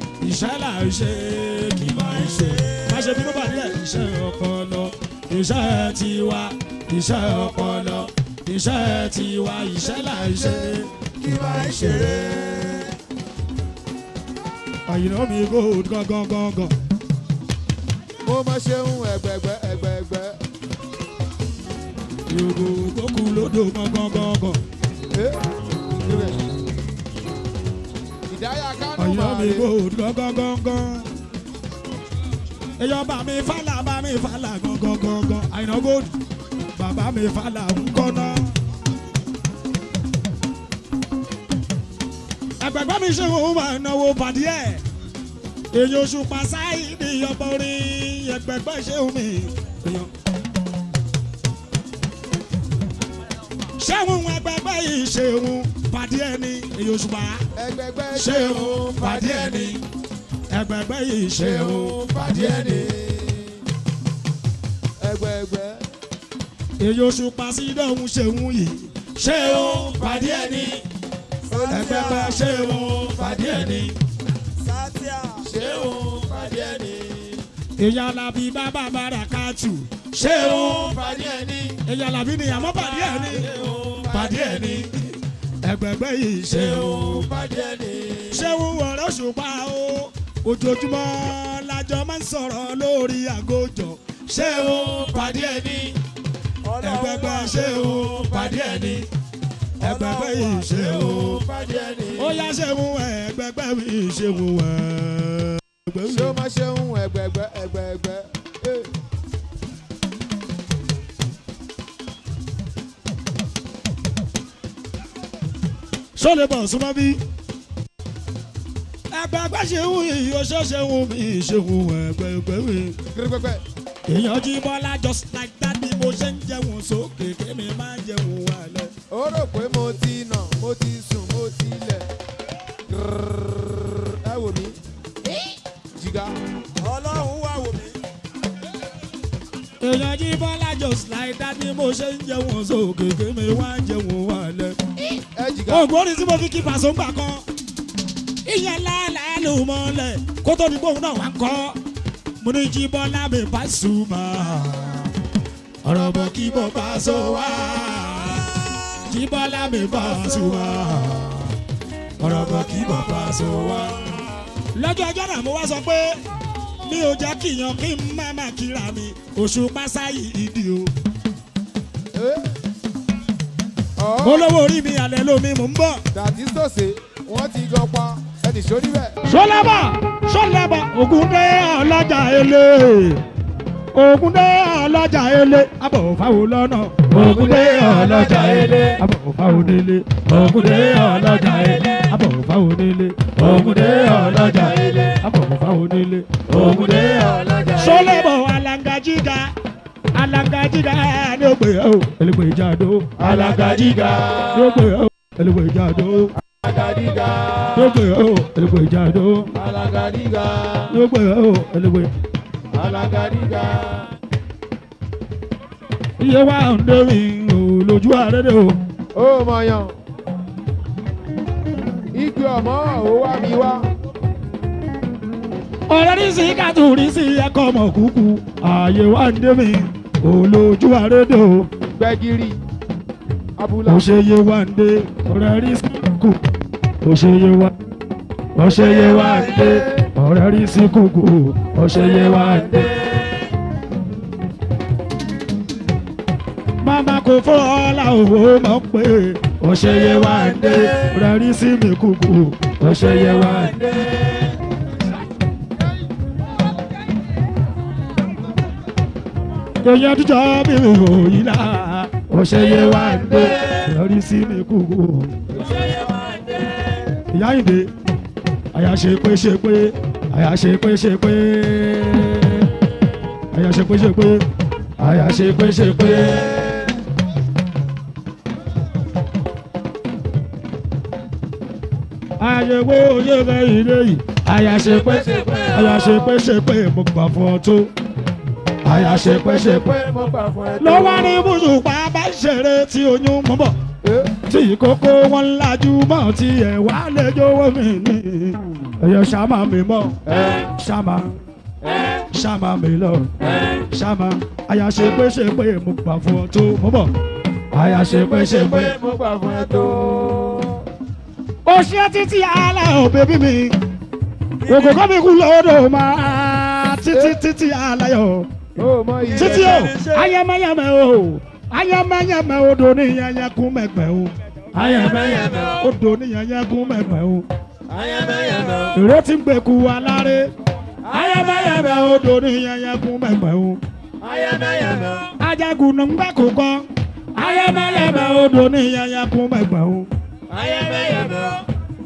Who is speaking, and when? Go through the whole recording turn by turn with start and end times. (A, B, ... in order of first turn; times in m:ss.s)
0:00.2-0:12.1 A
0:02.2-0:03.4 B
0:09.8-0:10.7 C
0:11.2-0:12.8 B
0:11.8-0:12.0 C
0:14.9-0:16.7 A
0:18.2-0:20.4 C
0:22.3-0:24.6 A
0:25.1-0:25.4 C
0:26.0-0:26.4 C
0:28.3-0:29.7 C
0:29.0-0:31.1 A
0:32.8-0:36.1 A
0:36.8-0:38.5 A
0:42.6-0:44.8 A
0:45.7-0:50.1 A
0:53.8-0:57.4 A
0:57.6-0:59.8 C
0:58.1-0:59.8 A
1:00.5-1:02.0 A
1:01.4-1:03.6 C
1:05.0-1:05.9 C
1:06.8-1:10.8 A
1:09.6-1:10.8 C
1:11.5-1:12.4 C
1:11.7-1:14.0 A
1:14.6-1:15.9 B
1:15.4-1:17.4 C
1:17.8-1:20.9 A
1:20.2-1:21.8 C
1:21.8-1:23.5 A
1:23.3-1:24.1 B
1:24.0-1:24.9 C
1:24.1-1:27.3 A
1:26.5-1:28.4 C
1:28.3-1:35.4 A
1:34.4-1:36.0 C
1:36.7-1:38.2 B
1:36.8-1:39.1 A
1:37.9-1:39.0 C
1:39.8-1:41.4 A
1:39.8-1:41.4 B
1:40.8-1:42.4 C
1:42.2-1:46.4 A
1:46.1-1:48.9 C
1:56.2-1:57.2 A
1:59.1-2:03.0 A
2:03.1-2:03.6 C
2:04.1-2:08.9 A
2:09.1-2:12.1 C
2:12.9-2:14.8 C
2:16.0-2:16.4 C
2:16.8-2:18.0 B
2:19.8-2:24.8 A
2:25.4-2:25.9 C
2:25.7-2:27.4 A
2:28.4-2:31.8 A
2:32.4-2:35.1 A
2:35.8-2:41.5 A
2:42.2-2:43.9 A
2:44.7-2:46.2 A
2:46.8-2:50.9 A
2:52.1-2:52.5 C
2:54.0-2:54.5 C
2:54.2-2:56.0 A
2:56.1-2:59.2 C
2:59.2-3:03.2 A
3:03.9-3:16.5 A
3:07.2-3:09.0 C
3:14.5-3:15.1 C
3:16.5-3:18.1 C
3:17.8-3:19.5 A
3:20.1-3:26.3 A
3:23.2-3:24.8 C
3:26.5-3:27.9 C
3:27.8-3:29.5 A
3:29.6-3:30.9 C
3:30.9-3:32.1 A
3:32.7-3:34.1 C
3:36.2-3:38.8 A
3:39.1-3:39.9 C
3:42.1-3:43.9 C
3:45.9-3:51.7 A
3:51.9-3:52.6 C
3:53.6-3:54.1 C
3:53.9-3:56.4 A
3:57.0-3:57.7 A
3:58.6-4:03.0 A
4:06.8-4:13.8 A
4:19.8-4:25.4 A
4:25.6-4:26.5 B
4:27.3-4:27.9 A
4:28.7-4:32.7 A
4:33.5-4:34.4 A
4:35.0-4:36.6 A
4:42.4-4:47.9 A
4:44.8-4:46.2 C
4:48.8-4:49.9 A
4:49.5-4:51.5 C
4:50.8-4:53.8 A
4:54.0-4:54.3 C
4:54.4-5:01.4 A
5:00.3-5:00.7 C
5:01.8-5:02.2 C
5:02.3-5:07.1 A
5:07.7-5:09.0 A
5:08.0-5:10.8 C
5:11.6-5:13.8 A
5:14.6-5:18.5 A
5:14.7-5:15.0 B
5:17.1-5:17.4 C
5:18.8-5:19.9 C
5:19.3-5:20.3 B
5:19.4-5:27.4 A
5:24.7-5:25.8 C
5:27.9-5:29.0 C
5:28.9-5:30.5 A
5:31.1-5:31.8 C
5:31.1-5:33.8 A
5:34.2-5:35.3 C
5:35.4-5:40.1 A
5:40.5-5:41.6 C